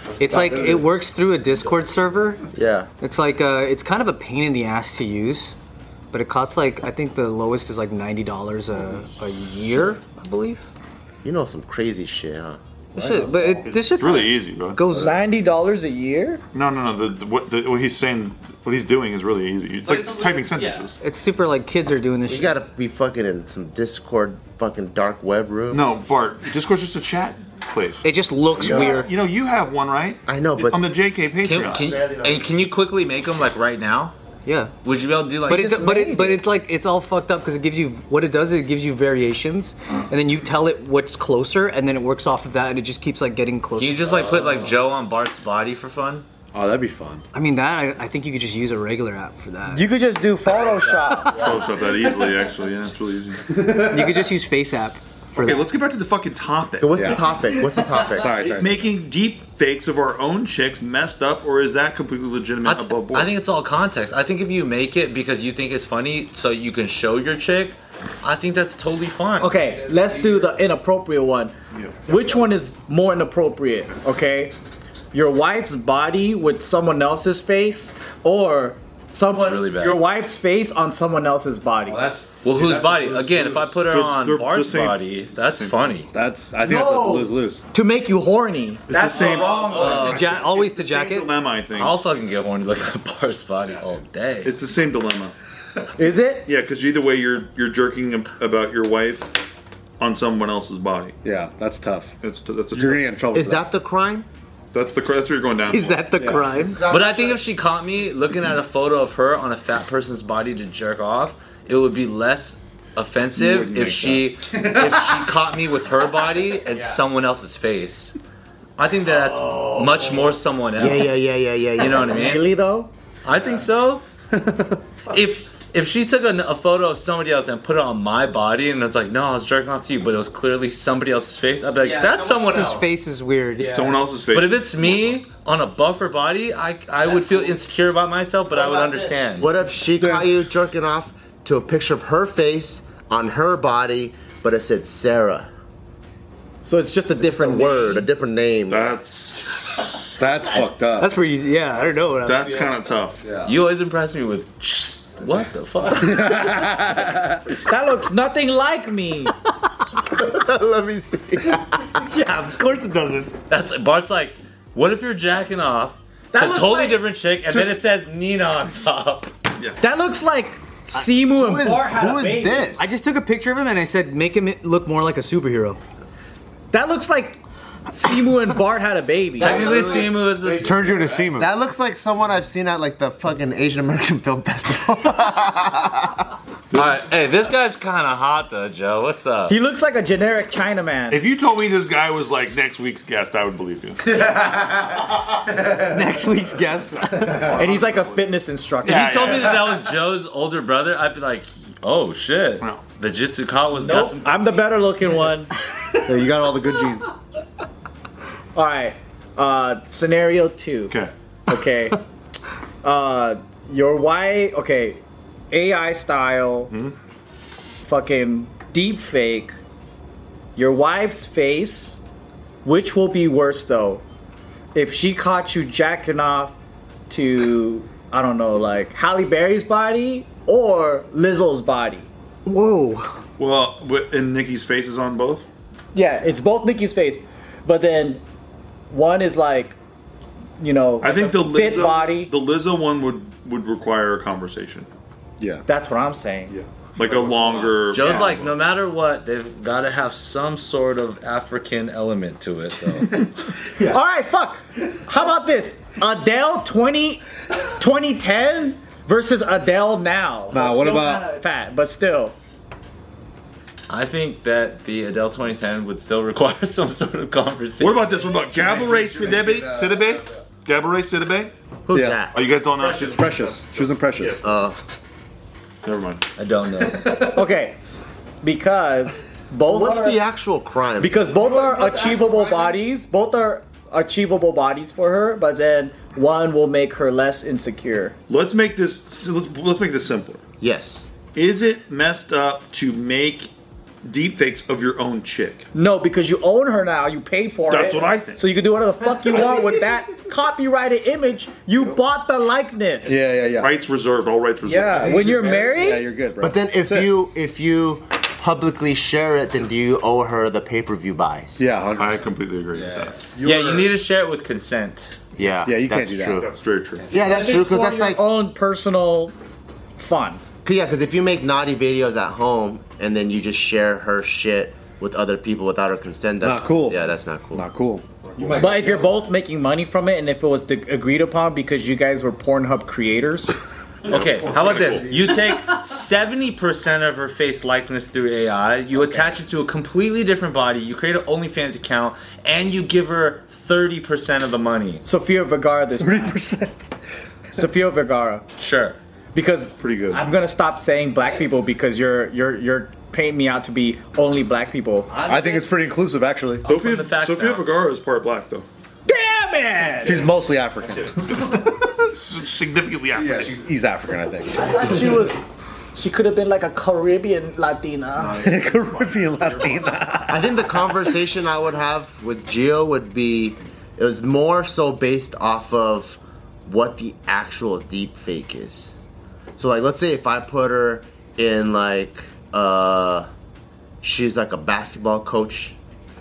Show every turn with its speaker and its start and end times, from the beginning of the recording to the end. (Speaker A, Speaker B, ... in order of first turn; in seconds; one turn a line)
Speaker A: 0.2-2.5
Speaker B: 0.2-0.8
Speaker C: 2.5-2.9
Speaker A: 3.0-5.5
Speaker A: 6.1-10.6
Speaker C: 11.2-13.1
Speaker A: 12.9-15.1
Speaker D: 13.6-14.8
Speaker E: 14.9-16.4
Speaker D: 16.5-21.0
Speaker F: 19.9-20.1
Speaker A: 20.4-22.6
Speaker C: 22.2-25.9
Speaker D: 25.7-28.0
Speaker A: 28.0-29.1
Speaker C: 28.5-29.0
Speaker D: 28.6-31.8
Speaker C: 30.2-30.9
Speaker F: 31.4-34.1
Speaker C: 31.5-32.7
Speaker A: 34.5-34.7
Speaker F: 34.8-35.8
Speaker A: 35.5-44.2
Speaker C: 35.5-36.4
Speaker F: 43.8-46.2
Speaker B: 46.5-47.2
Speaker A: 47.3-49.9
Speaker E: 49.7-51.5
Speaker D: 51.3-53.5
Speaker A: 53.6-55.7
Speaker B: 53.7-54.1
Speaker D: 55.4-57.3
Speaker C: 56.8-58.6
Speaker B: 56.9-57.2
Speaker B: 58.0-58.9
Speaker D: 58.2-63.4
Speaker F: 62.6-69.8
Speaker E: 69.4-71.5
Speaker E: 72.1-74.5
Speaker E: 75.1-82.0
Speaker F: 79.3-80.0
Speaker B: 81.8-83.6
Speaker F: 82.3-86.1
Speaker D: 83.3-85.9
Speaker B: 86.1-87.6
Speaker E: 86.6-89.6
Speaker D: 88.9-92.0
Speaker A: 89.1-91.3
Speaker F: 89.7-90.4
Speaker F: 91.8-94.6
Speaker D: 94.4-95.3
Speaker E: 96.0-96.5
Speaker D: 96.5-99.3
Speaker D: 100.0-101.2
Speaker B: 101.2-102.1
Speaker D: 102.2-103.1
Speaker B: 102.7-103.6
Speaker C: 103.3-104.3
Speaker D: 104.7-106.2
Speaker A: 105.7-106.8
Speaker B: 106.1-106.5
Speaker C: 106.6-107.4
Speaker F: 106.9-118.2
Speaker B: 113.3-115.4
Speaker F: 118.8-121.1
Speaker C: 119.4-119.8
Speaker C: 120.8-122.4
Speaker F: 121.8-122.4
Speaker E: 121.9-122.9
Speaker F: 123.2-124.0
Speaker B: 124.3-124.8
Speaker F: 125.1-132.9
Speaker A: 131.8-134.1
Speaker D: 133.6-135.1
Speaker F: 134.3-139.5
Speaker A: 137.1-137.4
Speaker C: 138.5-145.5
Speaker B: 140.0-140.2
Speaker E: 146.6-148.1
Speaker C: 147.2-148.9
Speaker D: 148.7-150.0
Speaker B: 150.2-151.1
Speaker A: 151.0-152.7
Speaker D: 152.2-153.3
Speaker B: 153.2-153.5
Speaker F: 153.4-156.4
Speaker B: 155.9-157.2
Speaker E: 157.6-159.3
Speaker C: 160.1-162.0
Speaker A: 162.0-163.4
Speaker F: 163.5-169.3
Speaker E: 166.3-167.0
Speaker D: 167.5-167.8
Speaker E: 169.8-172.7
Speaker C: 171.3-172.9
Speaker A: 172.8-175.8
Speaker E: 176.7-179.8
Speaker F: 179.4-181.0
Speaker B: 179.4-181.5
Speaker C: 181.3-186.2
Speaker D: 186.7-187.0
Speaker F: 186.7-189.6
Speaker E: 189.5-191.2
Speaker D: 191.1-194.2
Speaker A: 194.3-194.8
Speaker A: 195.5-197.6
Speaker D: 197.4-198.2
Speaker E: 197.5-199.4
Speaker F: 198.8-204.8
Speaker D: 198.8-199.8
Speaker E: 203.7-205.5
Speaker B: 206.0-207.1
Speaker E: 208.5-211.0
Speaker E: 211.5-212.0
Speaker E: 212.8-215.0
Speaker E: 215.5-216.7
Speaker D: 216.7-217.0
Speaker E: 217.8-219.5
Speaker E: 220.6-222.0
Speaker E: 222.6-224.0
Speaker E: 224.7-226.6
Speaker E: 227.1-232.1
Speaker A: 232.5-233.2
Speaker D: 233.4-235.5
Speaker E: 235.9-238.2
Speaker E: 238.9-239.8
Speaker E: 240.6-242.3
Speaker D: 241.0-244.9
Speaker E: 245.7-246.5
Speaker D: 246.5-248.6
Speaker F: 247.9-253.3
Speaker E: 253.8-257.2
Speaker E: 257.8-262.4
Speaker B: 260.5-261.3
Speaker F: 263.9-268.1
Speaker D: 267.8-271.5
Speaker B: 268.4-270.2
Speaker C: 271.9-272.4
Speaker B: 271.9-272.2
Speaker D: 272.3-274.4
Speaker B: 272.8-274.4
Speaker C: 274.4-274.8
Speaker D: 275.8-276.2
Speaker F: 276.4-277.4
Speaker E: 277.2-277.8
Speaker E: 278.4-280.2
Speaker C: 279.7-281.2
Speaker E: 281.0-288.2
Speaker D: 288.3-290.4
Speaker C: 290.6-291.1
Speaker D: 291.3-293.5
Speaker D: 294.1-295.7
Speaker E: 295.7-303.1
Speaker D: 297.7-298.4
Speaker B: 303.1-303.7
Speaker D: 303.6-305.6
Speaker E: 304.6-306.1
Speaker B: 304.9-307.1
Speaker C: 306.4-311.6
Speaker B: 311.6-313.9
Speaker D: 312.0-313.2
Speaker F: 313.4-315.2
Speaker C: 315.4-316.5
Speaker B: 315.6-316.4
Speaker D: 316.4-317.1
Speaker C: 317.1-318.2
Speaker E: 317.2-319.3
Speaker E: 320.0-320.4
Speaker C: 320.6-327.6
Speaker B: 326.4-329.1
Speaker D: 328.3-328.7
Speaker E: 328.6-333.5
Speaker D: 334.1-335.2
Speaker F: 334.1-345.0
Speaker E: 345.0-346.5
Speaker B: 346.0-346.8
Speaker E: 347.5-348.4
Speaker F: 348.6-349.0
Speaker E: 349.3-355.1
Speaker D: 349.8-350.2
Speaker F: 355.1-355.8
Speaker B: 355.2-356.6
Speaker F: 356.6-357.8
Speaker D: 356.6-358.7
Speaker E: 359.1-360.3
Speaker B: 360.0-361.6
Speaker D: 362.0-363.5
Speaker B: 363.1-365.2
Speaker E: 364.6-365.4
Speaker E: 365.9-368.5
Speaker D: 368.2-369.9
Speaker B: 368.3-370.5
Speaker C: 370.3-378.9
Speaker C: 379.6-383.3
Speaker C: 384.0-385.8